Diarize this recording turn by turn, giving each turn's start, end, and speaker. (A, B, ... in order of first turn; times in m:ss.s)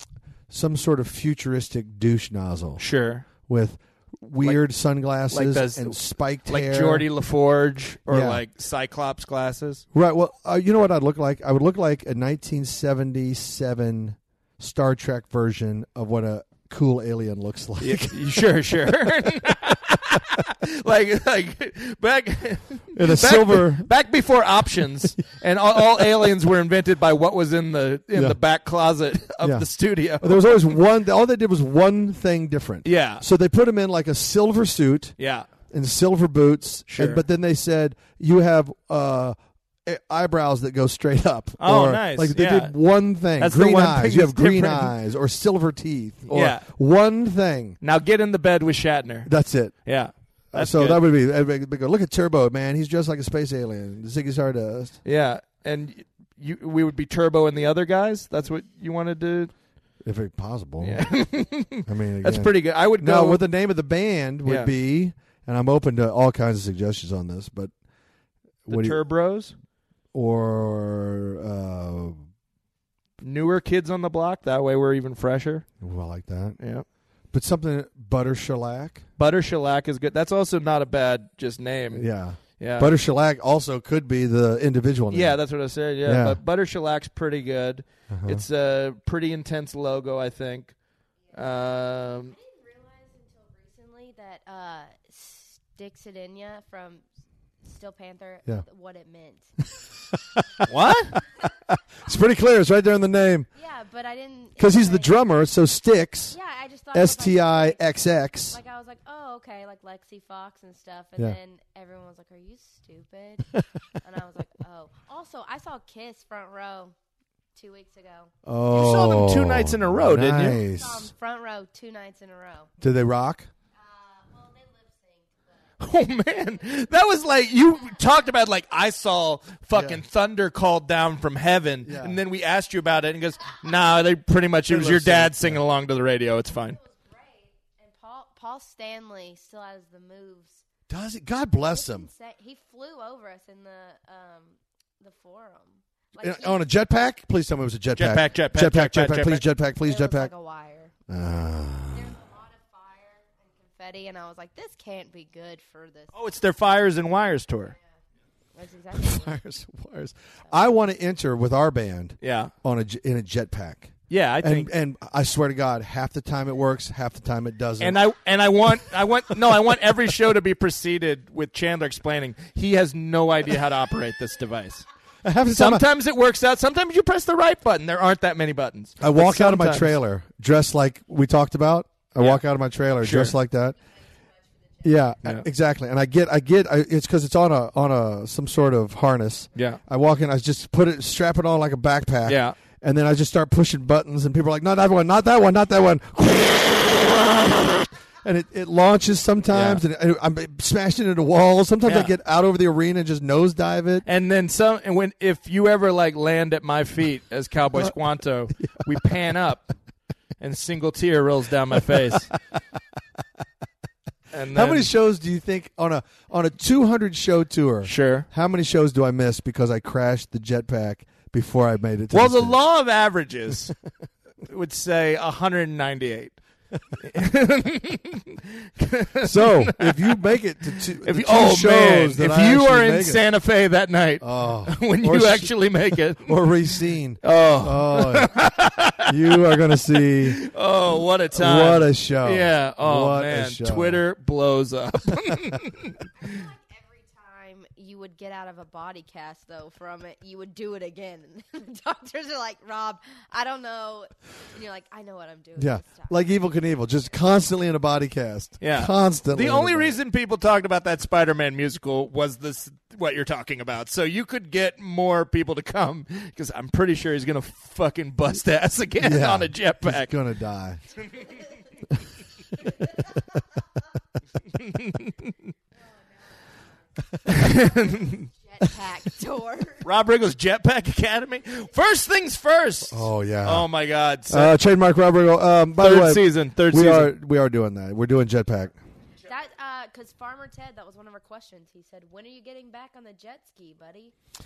0:00.5-0:02.8 A
0:02.8-0:03.3 B
0:03.5-0:07.1 A
0:05.3-0:09.8 B
0:08.1-0:08.4 A
0:09.9-0:18.4 A
0:17.8-0:30.6 B
0:22.9-0:23.9 A
0:28.1-0:28.4 A
0:29.4-0:29.7 A
0:30.2-0:35.2 A
0:32.8-0:33.2 B
0:35.2-0:35.5 B
0:35.7-0:47.8 A
0:36.9-0:37.2 B
0:41.6-0:42.8 B
0:43.4-0:44.9 B
0:46.3-0:46.7 B
0:47.8-0:49.3 B
0:49.2-0:49.9 A
0:49.8-0:51.0 B
0:50.5-0:55.0 A
0:55.0-0:59.5 B
1:00.0-1:01.1 A
1:00.8-1:03.5 B
1:01.8-1:07.7 A
1:04.5-1:04.7 B
1:08.7-1:09.0 A
1:08.7-1:09.5 B
1:10.1-1:12.2 A
1:13.2-1:15.7 B
1:15.8-1:16.6 A
1:16.6-1:16.8 B
1:17.3-1:19.0 A
1:19.2-1:22.1 B
1:21.9-1:25.4 A
1:22.6-1:22.9 B
1:25.1-1:30.7 B
1:26.0-1:26.4 A
1:28.1-1:28.4 A
1:31.3-1:37.0 C
1:31.3-1:32.3 B
1:37.6-1:39.5 C
1:40.1-1:40.7 A
1:40.7-1:41.2 B
1:41.7-1:43.5 A
1:43.6-1:45.2 C
1:44.6-1:46.4 A
1:46.3-1:47.8 C
1:46.9-1:48.6 A
1:48.5-1:53.5 C
1:54.0-1:57.0 C
1:57.6-1:58.3 C
1:58.5-2:01.1 A
1:58.7-2:00.6 B
2:00.6-2:02.7 C
2:02.8-2:03.5 A
2:03.8-2:05.7 C
2:05.8-2:16.8 B
2:09.7-2:10.0 A
2:11.8-2:12.2 A
2:14.7-2:15.6 A
2:16.7-2:20.6 C
2:20.9-2:22.1 A
2:21.7-2:26.6 C
2:26.2-2:30.3 A
2:28.0-2:29.4 B
2:29.8-2:30.9 C
2:31.1-2:32.1 A
2:31.9-2:36.1 C
2:36.1-2:37.8 B
2:38.6-2:39.3 C
2:39.0-2:48.0 A
2:42.2-2:42.5 B
2:44.1-2:44.7 B
2:47.8-2:54.9 B
2:55.2-2:55.8 A
2:55.5-2:59.9 B
2:59.0-3:03.8 A
3:03.0-3:03.4 B
3:04.8-3:24.1 A
3:09.6-3:09.8 B
3:12.3-3:12.6 B
3:19.5-3:19.8 B
3:21.8-3:22.1 B
3:24.1-3:29.7 B
3:30.4-3:32.3 B
3:34.3-3:34.9 B
3:34.5-3:42.6 A
3:37.8-3:38.3 B
3:42.1-3:43.8 B
3:44.4-3:46.4 B
3:47.0-3:50.2 B
3:49.2-3:53.2 A
3:51.0-3:56.4 B
3:54.2-3:55.5 A
3:56.2-3:58.4 A
3:57.2-3:59.4 B
3:59.1-4:00.4 A
4:00.2-4:06.0 B
4:01.3-4:04.0 A
4:06.2-4:16.2 C
4:15.6-4:20.0 A
4:18.6-4:30.1 B
4:29.0-4:30.8 A
4:34.6-4:35.3 B
4:35.8-4:36.5 C
4:37.3-4:38.3 B
4:37.4-4:39.9 C
4:39.8-4:44.5 B
4:42.9-4:43.7 A
4:44.3-4:48.8 A
4:45.8-4:47.1 B
4:49.2-4:54.1 C